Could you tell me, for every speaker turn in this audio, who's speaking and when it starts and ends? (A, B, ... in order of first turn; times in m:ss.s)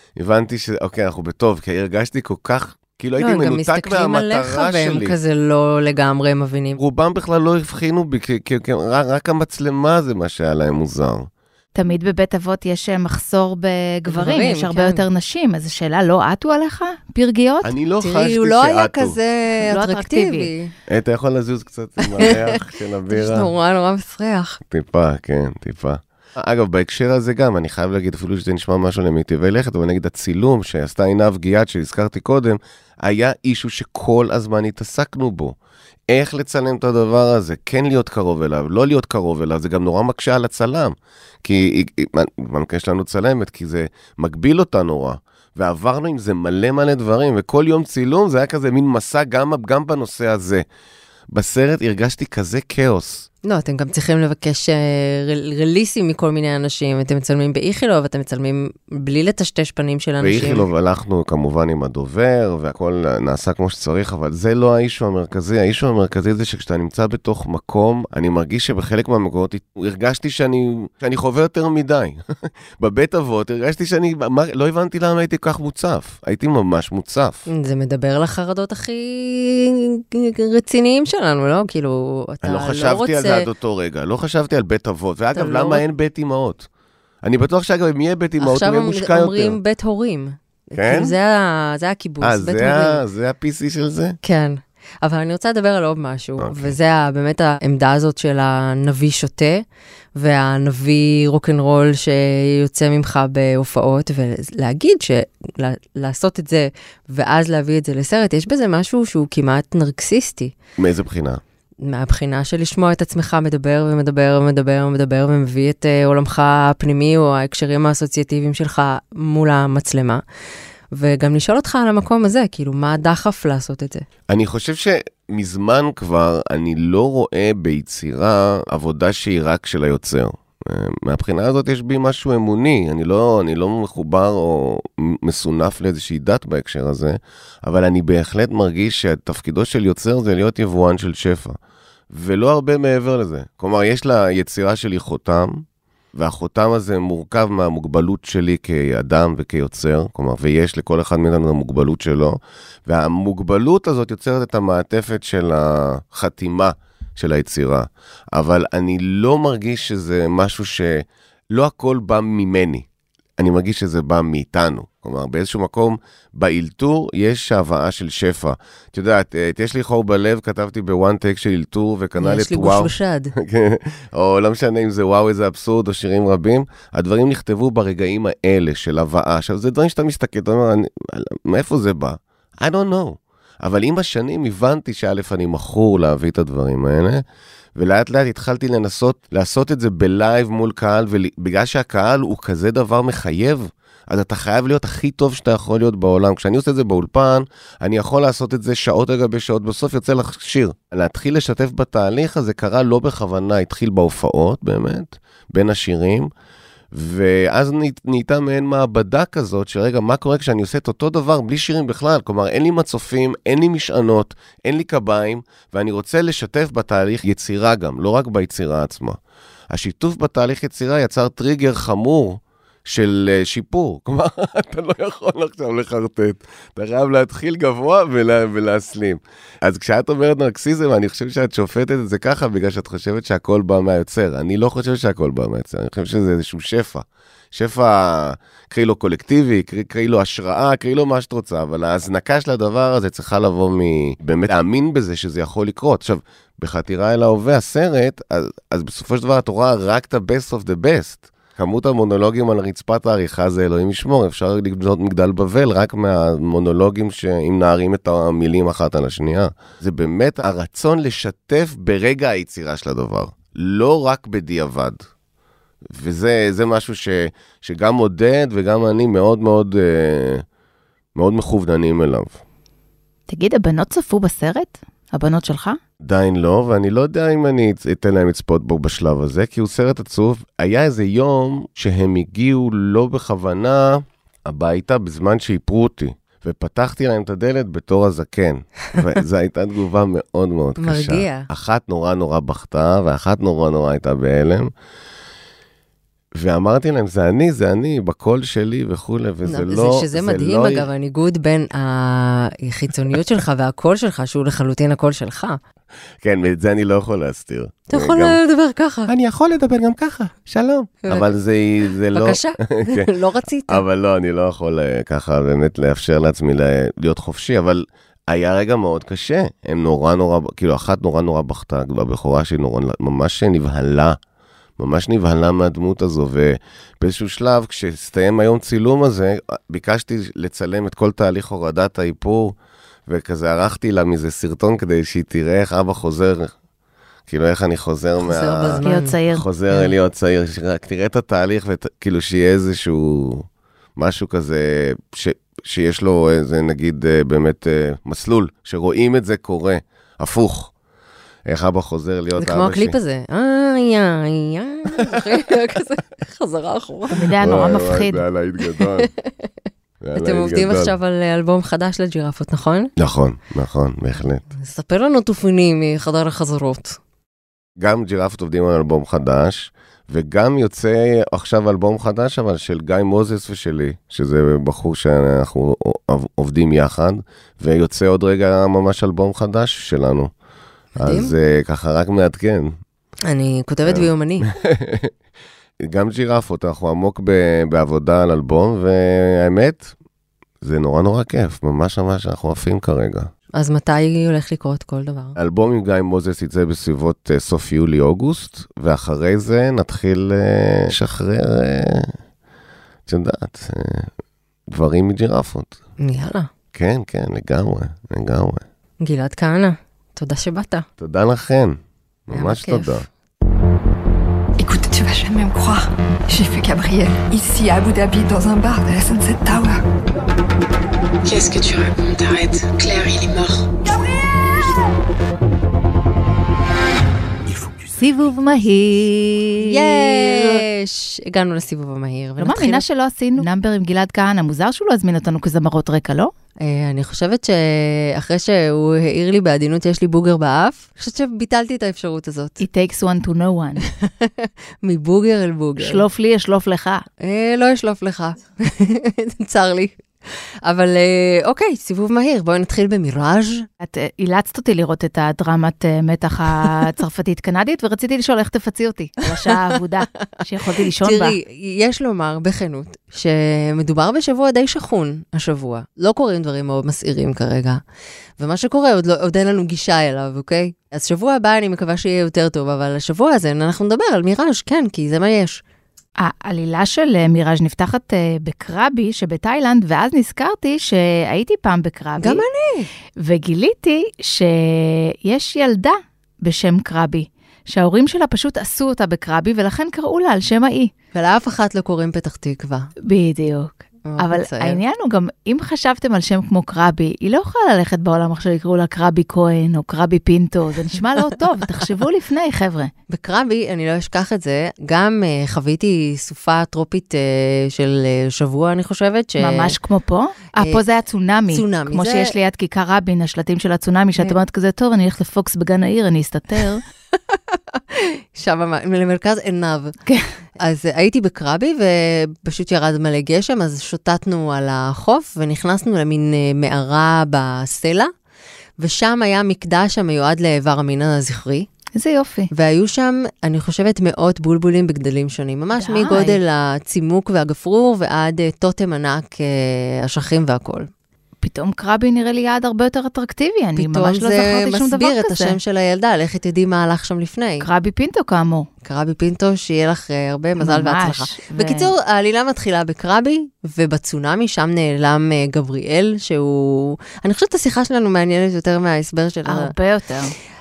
0:00.2-0:05.2 A
0:03.2-0:06.8 B
0:06.8-0:11.3 A
0:11.7-0:17.7 C
0:14.1-0:15.0 B
0:17.6-0:19.2 A
0:18.0-0:20.7 B
0:19.6-0:20.5 C
0:20.9-0:23.5 A
0:23.1-0:24.6 B
0:24.7-0:35.6 A
0:36.1-0:50.6 A
0:51.3-0:53.3 A
0:53.4-1:00.7 B
1:00.2-1:17.4 A
1:17.5-1:23.5 B
1:22.4-1:26.7 A
1:25.3-1:25.8 B
1:27.2-1:29.6 A
1:28.4-1:33.0 B
1:30.8-1:31.1 A
1:32.2-1:34.2 A
1:34.2-1:39.6 B
1:36.4-1:36.7 A
1:40.2-1:50.5 B
1:50.8-1:51.4 A
1:51.8-2:00.2 B
2:00.9-2:04.0 B
2:04.3-2:21.6 A
2:22.1-2:42.8 A
2:43.4-3:07.2 A
2:52.2-2:53.3 B
3:07.8-3:26.3 A
3:26.9-3:39.2 A
3:39.7-4:25.0 A
4:25.9-4:30.4 A
4:31.1-4:32.4 A
4:33.3-4:35.8 C
4:36.0-4:54.7 A
4:50.8-4:51.5 B
4:56.3-5:00.9 A
4:59.4-5:05.6 B
5:06.2-5:08.4 A
5:07.9-5:09.1 B
5:09.1-5:13.1 A
5:11.0-5:11.3 B
5:12.1-5:13.8 B
5:13.7-5:24.2 A
5:24.8-5:32.6 A
5:33.1-5:36.5 A
5:37.3-5:50.7 A
5:38.2-5:39.2 B
5:38.8-5:39.4 C
5:51.5-5:53.0 A
5:52.4-5:57.2 B
5:57.1-5:58.2 C
5:57.4-5:59.1 A
5:58.8-5:59.5 B
6:00.0-6:00.9 A
6:00.1-6:02.9 B
6:03.0-6:04.4 A
6:04.6-6:07.0 B
6:07.8-6:20.3 A
6:21.0-6:22.8 A
6:21.0-6:21.3 B
6:23.3-6:24.5 B
6:23.8-6:25.1 A
6:25.8-6:29.9 A
6:30.6-6:33.3 A
6:33.6-6:35.4 B
6:35.4-6:42.2 A
6:43.0-6:44.1 A
6:44.7-6:45.8 A
6:46.0-6:46.5 B
6:46.7-6:48.6 A
6:49.0-6:50.8 B
6:51.0-6:53.0 A
6:52.3-6:53.0 B
6:54.6-6:59.8 D
7:01.2-7:03.6 E
7:08.0-7:10.6 C
7:09.6-7:12.8 B
7:12.4-7:16.3 C
7:16.6-7:22.6 B
7:22.6-7:23.8 C
7:24.0-7:26.0 B
7:25.8-7:27.0 C
7:27.2-7:30.0 B
7:30.6-7:33.7 B
7:33.8-7:41.4 C
7:41.0-7:47.8 B
7:48.4-7:55.6 B
7:56.2-8:02.4 C
8:02.2-8:02.9 B
8:03.2-8:10.9 C
8:11.1-8:12.9 B
8:13.0-8:22.9 C
8:14.1-8:14.8 B
8:23.1-8:29.7 B
8:29.4-8:36.8 C
8:31.5-8:32.3 B
8:37.3-8:40.0 B
8:40.6-8:48.1 B
8:48.8-8:51.7 B
8:52.0-8:52.5 C
8:52.5-9:00.9 B
8:55.8-8:56.4 C
9:01.4-9:05.6 C
9:03.8-9:07.7 B
9:07.6-9:08.7 C
9:08.8-9:19.7 B
9:10.6-9:11.9 C
9:19.4-9:20.3 C